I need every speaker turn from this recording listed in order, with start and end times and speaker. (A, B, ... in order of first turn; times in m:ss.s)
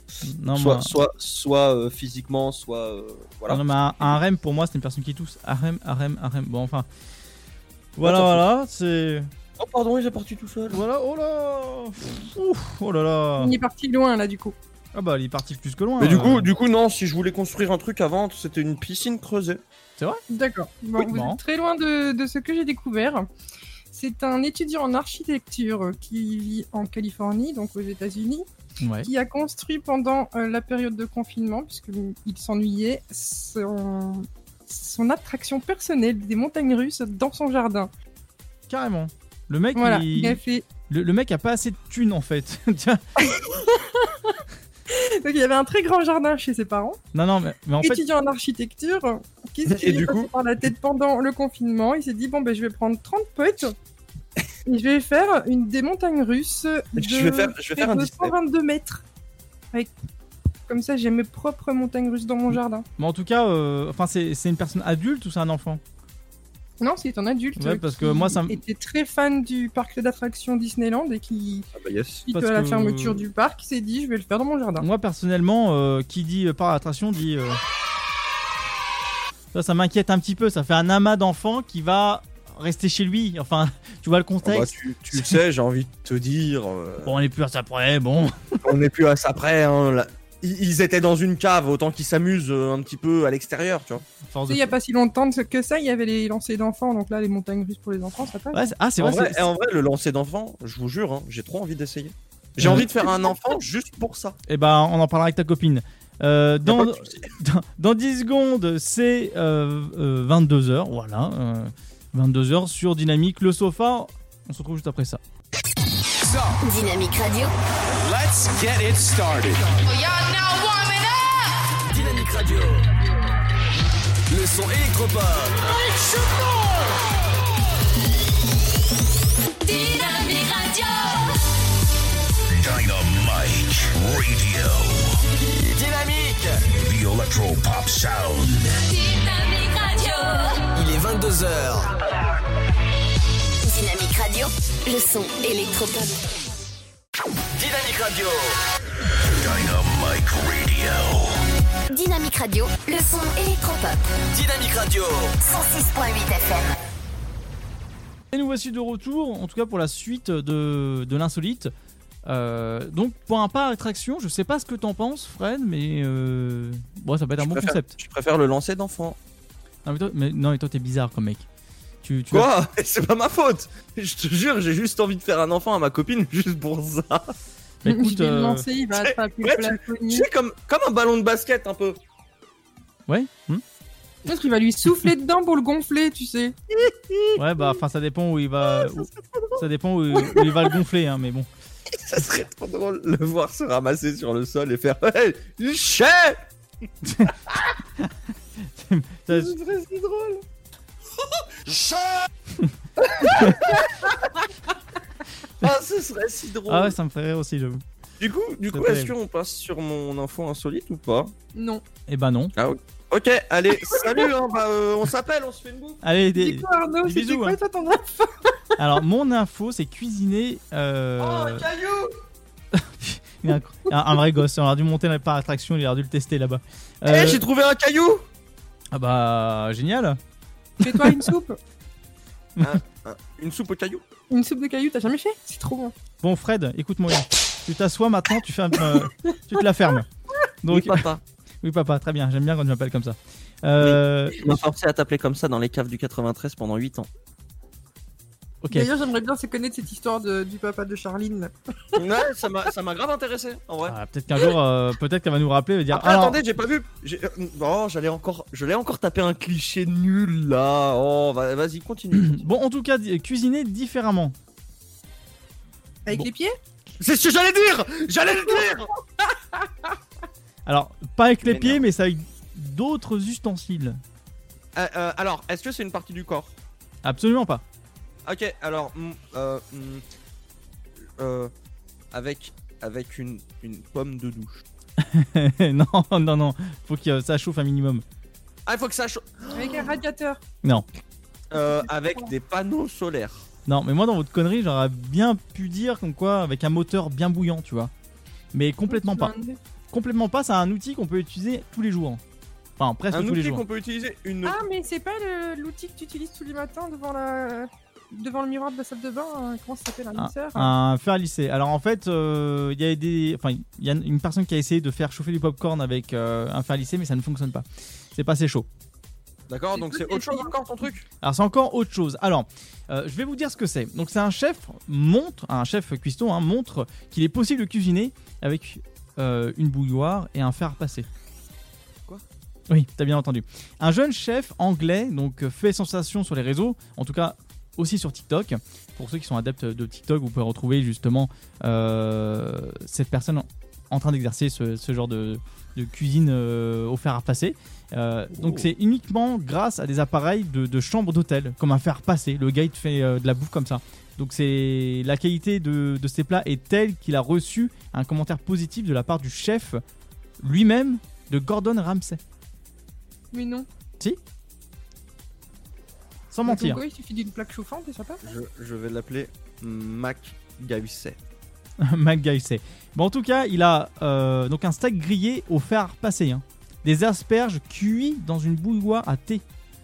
0:00.2-0:00.9 A
0:00.5-0:04.2 B
0:03.5-0:06.9 A
0:08.0-0:09.3 A
0:08.0-0:08.4 B
0:09.6-0:10.8 B
0:10.7-0:13.5 A
0:13.4-0:14.6 C
0:14.9-0:16.5 A
0:16.0-0:19.6 B
0:20.3-0:23.3 C
0:21.0-0:21.4 A
0:23.9-0:28.5 C
0:28.8-0:29.1 A
0:29.0-0:37.9 C
0:38.7-0:43.0 A
0:39.8-0:40.6 C
0:43.3-0:44.3 C
0:44.9-0:47.0 C
0:47.1-0:48.0 A
0:47.8-0:53.7 C
0:49.7-0:50.3 B
0:54.7-0:59.0 C
0:57.0-0:58.3 B
1:00.7-1:02.8 C
1:03.0-1:05.8 A
1:06.8-1:11.7 C
1:07.6-1:08.6 A
1:11.8-1:12.2 B
1:12.3-1:14.8 C
1:12.3-1:13.2 A
1:14.8-1:17.6 A
1:19.5-1:25.4 A
1:24.4-1:27.2 B
1:27.0-1:28.6 A
1:28.6-1:34.0 B
1:34.2-1:34.7 A
1:34.5-1:38.6 C
1:38.5-1:39.5 A
1:39.0-1:44.4 B
1:42.6-1:42.9 A
1:44.5-1:55.2 A
1:46.7-1:47.3 B
1:56.6-1:57.5 D
2:01.9-2:02.9 E
2:04.3-2:05.8 E
2:09.6-2:11.3 F
2:12.5-2:15.2 G
2:15.7-2:16.6 E
2:16.7-2:18.8 G
2:18.8-2:20.7 F
2:20.7-2:21.9 E
2:23.6-2:26.2 D
2:27.6-2:28.6 E
2:29.4-2:31.4 G
2:31.9-2:34.1 D
2:34.3-2:35.4 E
2:35.4-2:36.8 D
2:38.3-2:41.7 A
2:42.3-2:47.9 A
2:47.4-2:49.2 B
2:49.9-2:51.5 A
2:52.0-2:52.5 A
2:52.3-2:57.3 B
2:57.8-2:58.7 A
2:57.9-3:00.3 C
2:59.0-3:02.0 B
3:03.1-3:03.6 A
3:04.3-3:06.6 C
3:07.4-3:11.5 A
3:12.1-3:16.4 B
3:17.0-3:17.3 A
3:18.8-3:19.6 A
3:19.5-3:20.4 C
3:23.2-3:23.7 B
3:25.6-3:27.0 B
3:26.7-3:27.8 A
3:28.2-3:31.3 B
3:28.7-3:29.1 A
3:31.6-3:31.8 C
3:32.1-3:32.5 A
3:32.6-3:36.0 B
3:36.0-3:37.6 A
3:36.4-3:38.5 C
3:38.8-3:41.6 A
3:41.2-3:42.1 B
3:42.8-3:47.4 A
3:47.1-3:48.2 B
3:48.9-3:50.2 A
3:50.8-3:51.3 A
3:50.8-3:51.6 C
3:52.6-3:54.0 B
3:54.3-3:55.9 C
3:56.2-4:00.1 A
4:00.6-4:01.0 A
4:00.7-4:01.2 B
4:01.6-4:04.6 A
4:03.8-4:07.1 B
4:08.6-4:08.9 A
4:08.7-4:11.5 C
4:12.0-4:14.0 B
4:13.9-4:16.4 A
4:15.9-4:22.5 B
4:22.2-4:24.3 A
4:26.1-4:26.6 C
4:27.0-4:28.9 B
4:30.7-4:34.0 A
4:31.4-4:31.8 B
4:34.8-4:36.6 B
4:37.0-4:37.6 A
4:38.3-4:40.0 B
4:41.0-4:41.5 B
4:42.1-4:44.6 B
4:45.0-4:48.0 A
4:48.7-4:49.9 B
4:49.5-4:50.4 C
4:51.5-4:53.5 B
4:51.6-4:52.2 C
4:53.7-4:57.9 A
4:58.5-4:59.3 A
4:58.9-4:59.6 C
4:59.9-5:02.2 A
5:02.8-5:03.6 A
5:03.1-5:04.6 B
5:04.4-5:10.7 C
5:10.2-5:17.6 A
5:18.2-5:18.7 A
5:19.5-5:21.0 B
5:19.8-5:20.5 C
5:21.2-5:31.1 A
5:32.7-5:59.8 A
5:48.3-5:48.7 B
6:00.4-6:02.2 A
6:03.3-6:03.7 C
6:06.3-6:06.8 A
6:06.5-6:08.2 C
6:08.2-6:11.2 B
6:11.8-6:19.4 A